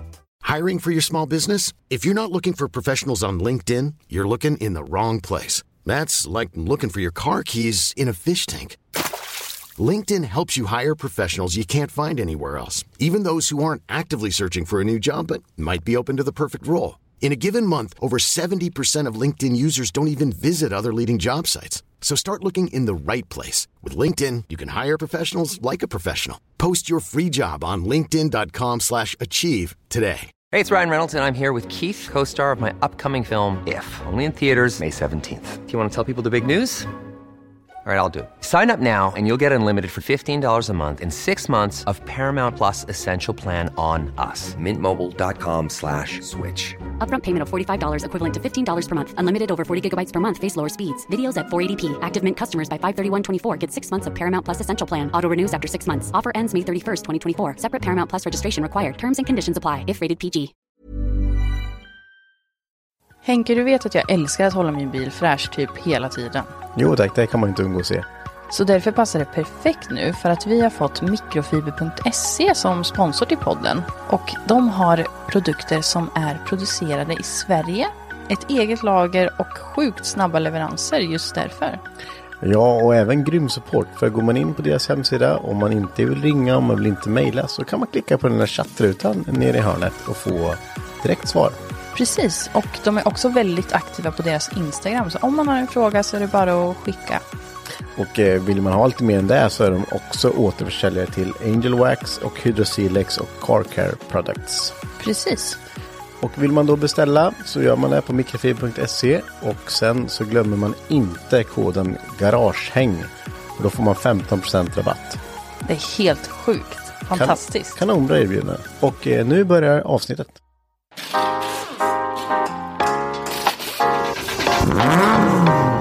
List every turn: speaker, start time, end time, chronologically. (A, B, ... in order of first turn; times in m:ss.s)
0:00.4-0:08.8 A
0:09.8-0:30.3 A
0:30.5-0:36.9 B
0:37.8-0:46.8 B
0:47.0-1:00.5 C
1:03.2-1:06.5 D
1:06.7-1:08.1 E
1:08.5-1:21.8 D
1:22.4-1:31.6 E
1:31.9-1:37.2 D
1:38.0-1:44.8 E
1:45.0-1:45.6 D
1:46.2-1:55.2 E
1:55.6-1:57.8 D
1:57.1-2:00.4 E